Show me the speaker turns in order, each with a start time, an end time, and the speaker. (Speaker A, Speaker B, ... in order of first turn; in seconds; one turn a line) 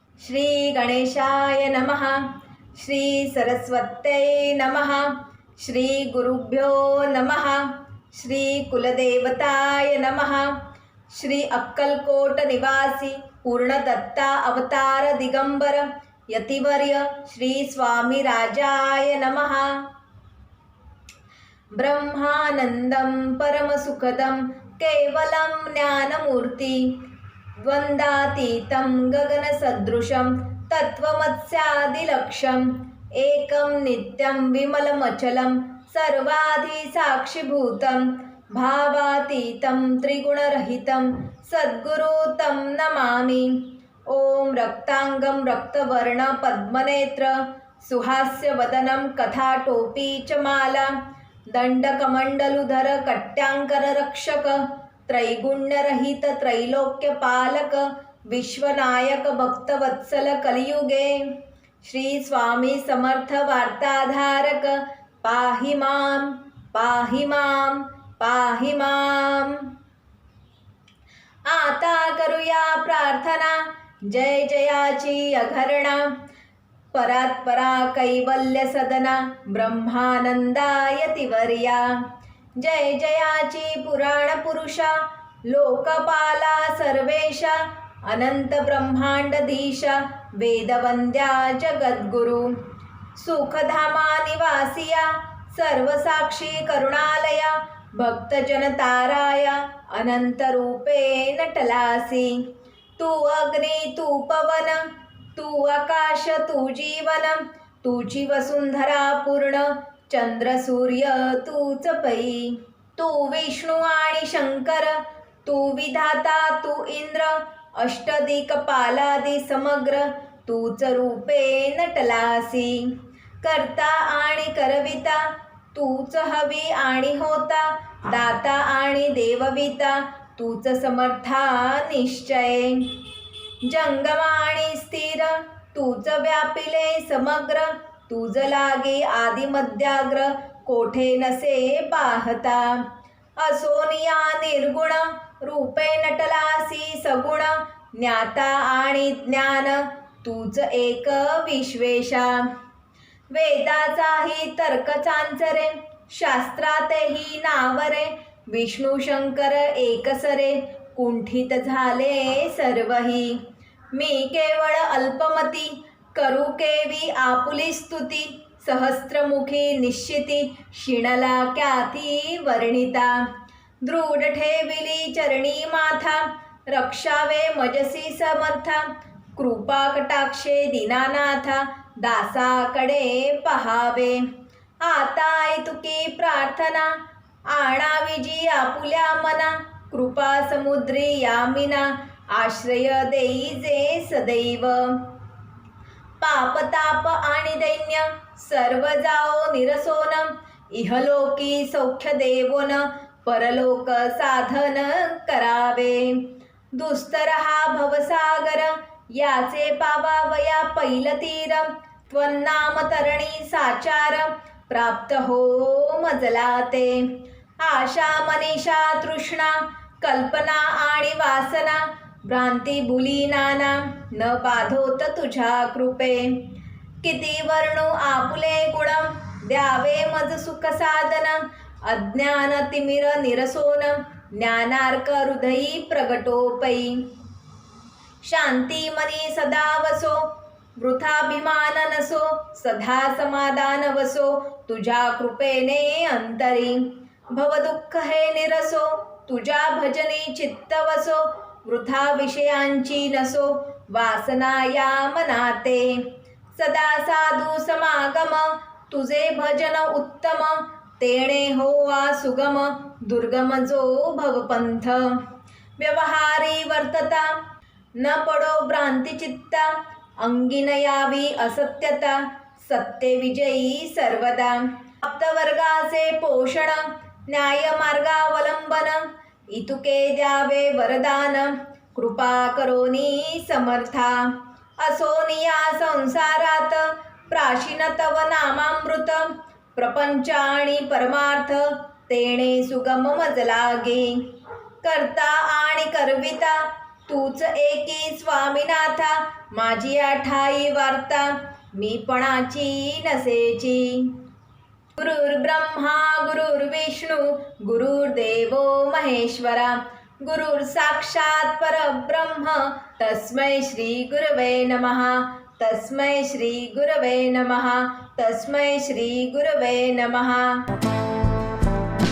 Speaker A: 0.2-19.9
Speaker A: 21.7-27.0
Speaker A: 27.6-50.9
Speaker A: 51.5-69.7
Speaker A: 71.5-76.1
Speaker A: 76.9-82.0
Speaker A: 82.5-92.6
Speaker A: 93.1-102.5
Speaker A: 103.0-133.0
Speaker A: 133.6-142.9
Speaker A: 143.4-152.5
Speaker A: 153.3-163.4
Speaker A: 163.9-173.3
Speaker A: 173.8-184.3
Speaker A: 184.8-186.9
Speaker A: 187.5-195.2
Speaker A: 196.2-237.0
Speaker A: 238.2-265.2
Speaker A: 265.8-267.4
Speaker A: 268.0-294.3
Speaker A: 294.8-304.2
Speaker A: 305.0-320.7